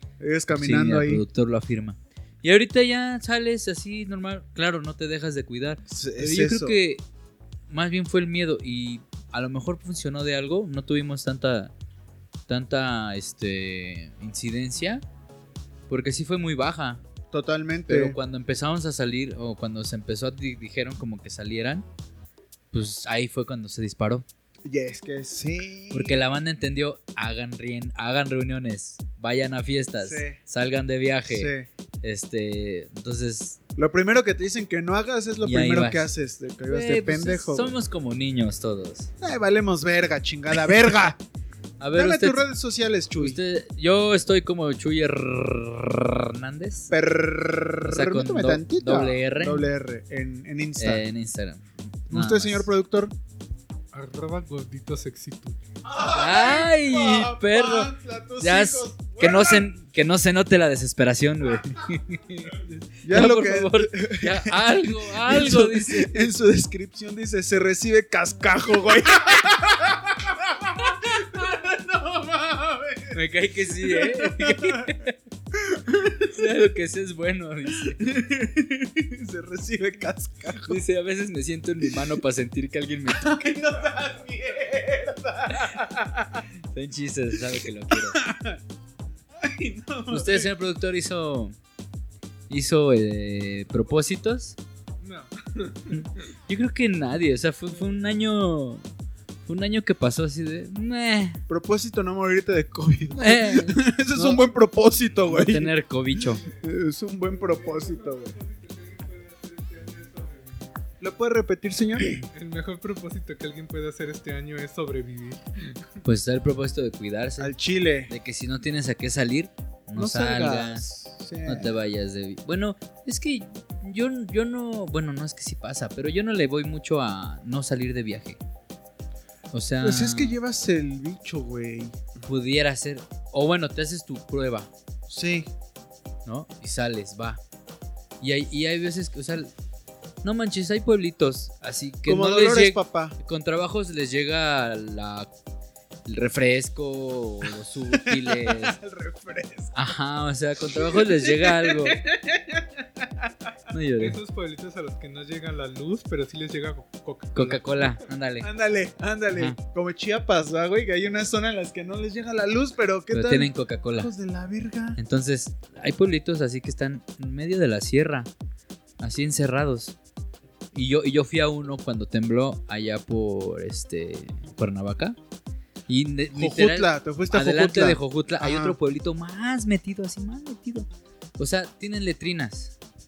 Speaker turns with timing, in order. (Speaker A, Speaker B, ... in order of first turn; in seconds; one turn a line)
Speaker A: 0.2-1.2
Speaker B: 0.5-7.0
Speaker A: 5.9-6.8
Speaker B: 7.7-11.7
Speaker B: 12.5-15.0
Speaker B: 15.9-17.0
Speaker A: 17.3-18.2
Speaker B: 17.9-21.9
Speaker B: 22.7-24.3
Speaker A: 24.6-26.2
Speaker B: 25.9-31.5
Speaker A: 30.0-30.4
Speaker A: 31.3-31.7
Speaker B: 32.0-33.6
Speaker A: 33.8-37.8
Speaker B: 35.4-36.1
Speaker B: 36.7-39.1
Speaker A: 39.2-41.2
Speaker B: 41.8-42.4
Speaker A: 42.0-43.4
Speaker B: 43.2-47.0
Speaker A: 46.9-51.0
Speaker B: 47.9-49.7
Speaker B: 50.8-52.7
Speaker A: 52.1-53.1
Speaker C: 53.9-55.6
Speaker A: 55.9-59.7
Speaker B: 56.0-66.3
Speaker A: 63.0-73.2
Speaker B: 73.1-75.2
Speaker A: 73.7-75.0
Speaker A: 75.5-76.5
Speaker B: 76.2-78.1
Speaker A: 77.8-80.8
Speaker B: 80.7-83.4
Speaker A: 83.1-86.5
Speaker B: 86.7-88.2
Speaker A: 87.9-88.6
Speaker A: 89.4-90.5
Speaker B: 90.1-91.5
Speaker B: 92.5-94.6
Speaker C: 95.0-96.0
Speaker B: 95.9-98.8
Speaker B: 99.5-101.4
Speaker A: 101.5-105.7
Speaker B: 103.2-104.5
Speaker B: 105.3-106.5
Speaker A: 106.4-108.3
Speaker C: 107.2-110.7
Speaker A: 111.0-112.2
Speaker C: 112.3-115.8
Speaker B: 116.0-117.5
Speaker A: 117.4-118.1
Speaker B: 118.1-120.8
Speaker A: 120.0-121.8
Speaker B: 121.5-128.4
Speaker B: 129.5-130.4
Speaker A: 129.8-132.0
Speaker B: 132.2-134.7
Speaker A: 135.1-135.5
Speaker B: 136.3-137.4
Speaker B: 138.2-139.5
Speaker B: 140.2-145.3
Speaker A: 142.1-143.2
Speaker B: 146.1-148.8
Speaker A: 147.9-149.7
Speaker B: 149.7-152.0
Speaker A: 150.7-153.5
Speaker B: 153.7-154.2
Speaker C: 154.0-158.0
Speaker B: 157.3-158.5
Speaker A: 158.4-165.0
Speaker B: 159.3-159.6
Speaker B: 163.1-164.1
Speaker B: 165.0-168.3
Speaker B: 169.0-169.9
Speaker B: 170.7-175.2
Speaker B: 175.9-180.9
Speaker A: 176.3-178.8
Speaker B: 181.4-182.8